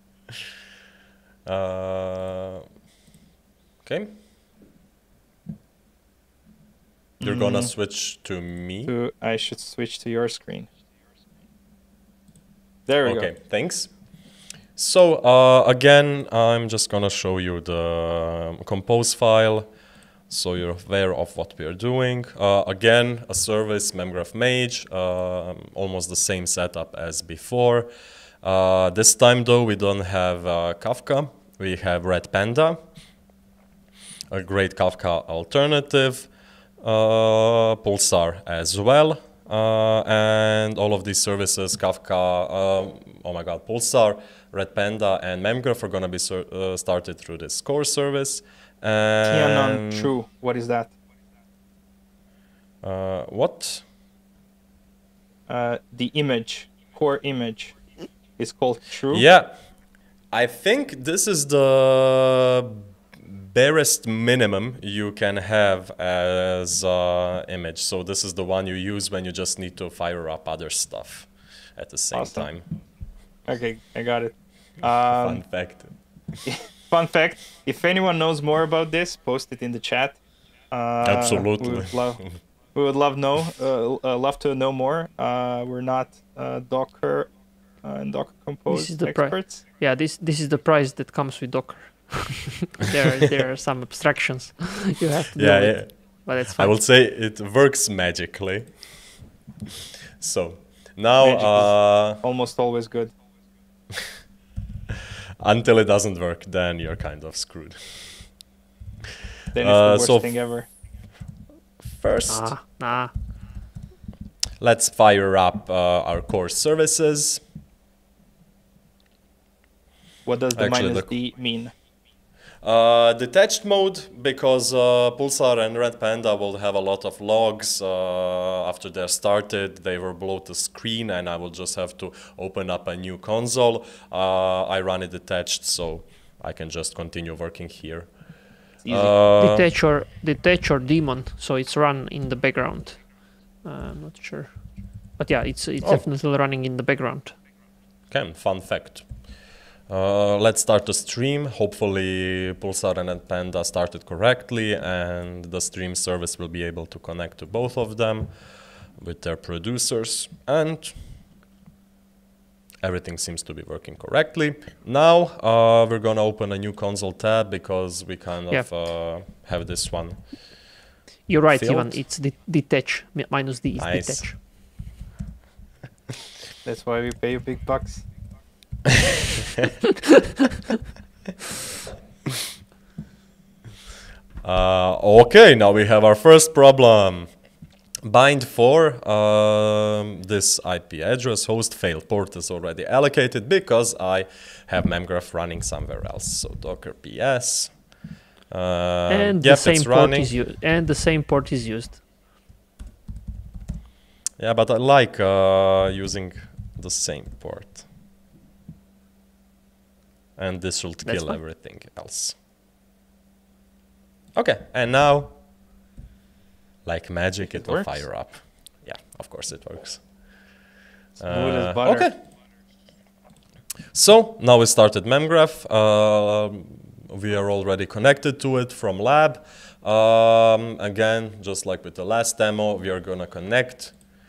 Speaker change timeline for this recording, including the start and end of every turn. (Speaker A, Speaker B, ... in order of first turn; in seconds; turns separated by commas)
Speaker A: 1.4-2.6, Speaker A: 3.8-4.1, Speaker B: 7.2-7.7, Speaker A: 7.2-8.9, Speaker B: 8.8-10.7, Speaker B: 12.9-13.3, Speaker A: 13.0-13.9, Speaker A: 14.8-19.7, Speaker A: 20.3-27.9, Speaker A: 28.4-32.8, Speaker A: 34.3-50.1, Speaker B: 49.3-50.9, Speaker A: 52.8-53.8, Speaker B: 55.5-57.8, Speaker B: 58.4-59.2, Speaker A: 59.1-59.5, Speaker A: 60.3-72.7, Speaker B: 72.1-72.5, Speaker B: 73.5-75.4, Speaker A: 75.1-75.9, Speaker B: 76.5-80.2, Speaker B: 80.7-87.3, Speaker A: 81.0-82.3, Speaker B: 87.8-89.5, Speaker C: 88.7-96.8, Speaker A: 95.3-99.1, Speaker A: 100.2-102.2, Speaker B: 101.2-103.1, Speaker A: 105.4-108.3, Speaker B: 109.5-110.7, Speaker A: 109.5-110.3, Speaker A: 111.8-112.5, Speaker C: 112.3-113.1, Speaker A: 114.6-117.4, Speaker B: 120.2-121.7, Speaker A: 120.5-121.1, Speaker A: 122.6-138.1, Speaker B: 138.8-139.1, Speaker A: 138.9-139.7, Speaker C: 139.4-143.0, Speaker C: 143.6-144.5, Speaker C: 145.2-147.3, Speaker A: 148.1-149.3, Speaker A: 149.9-161.2, Speaker A: 162.8-170.3, Speaker C: 171.3-174.4, Speaker A: 171.5-172.0, Speaker A: 173.8-174.2, Speaker B: 176.6-178.1, Speaker A: 184.4-187.3, Speaker A: 188.0-197.9, Speaker A: 198.5-200.3, Speaker C: 199.1-202.0, Speaker A: 204.4-207.8, Speaker A: 210.4-212.4, Speaker C: 211.1-211.4, Speaker A: 214.3-215.3, Speaker A: 216.8-220.1, Speaker B: 217.4-218.0, Speaker B: 221.2-222.1, Speaker A: 221.2-222.2, Speaker A: 223.9-233.9